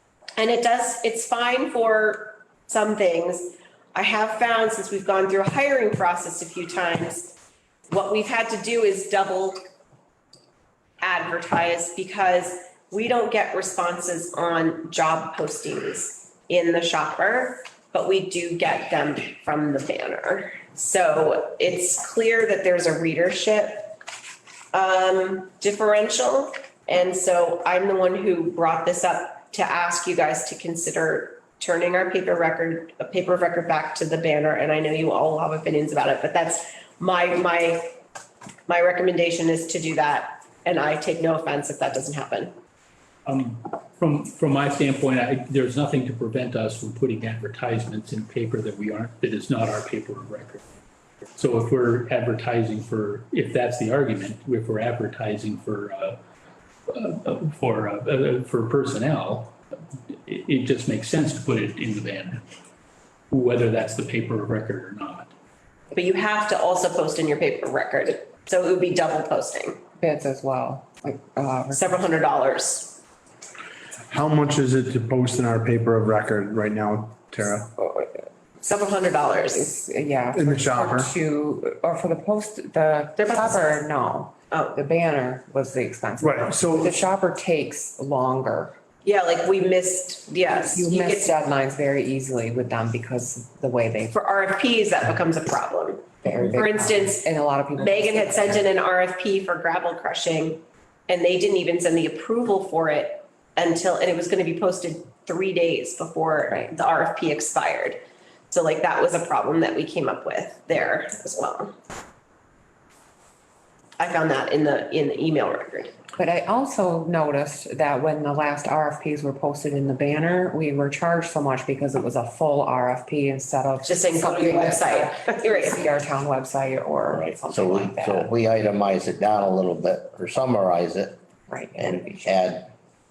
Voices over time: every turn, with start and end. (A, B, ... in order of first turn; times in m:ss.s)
0:00.4-0:07.4 A
0:07.9-0:09.6 A
0:11.0-0:24.0 A
0:24.7-0:38.0 A
0:38.7-0:42.5 A
0:43.2-0:50.6 B
0:51.4-0:56.2 B
0:56.9-0:59.6 B
1:00.1-1:02.4 B
1:03.3-1:05.3 B
1:05.9-1:09.8 A
1:10.0-1:11.9 C
1:11.7-1:13.0 A
1:14.1-1:17.7 D
1:18.6-1:19.7 A
1:19.5-1:28.7 C
1:20.3-1:21.1 D
1:23.2-1:23.8 A
1:24.5-1:24.8 A
1:26.2-1:27.0 D
1:29.0-1:31.3 A
1:30.6-1:34.2 C
1:34.1-1:51.7 A
1:36.2-1:38.7 C
1:54.0-1:56.0 A
1:56.2-2:08.3 C
2:03.8-2:05.8 A
2:07.0-2:11.2 E
2:11.5-2:12.3 C
2:11.8-2:12.7 E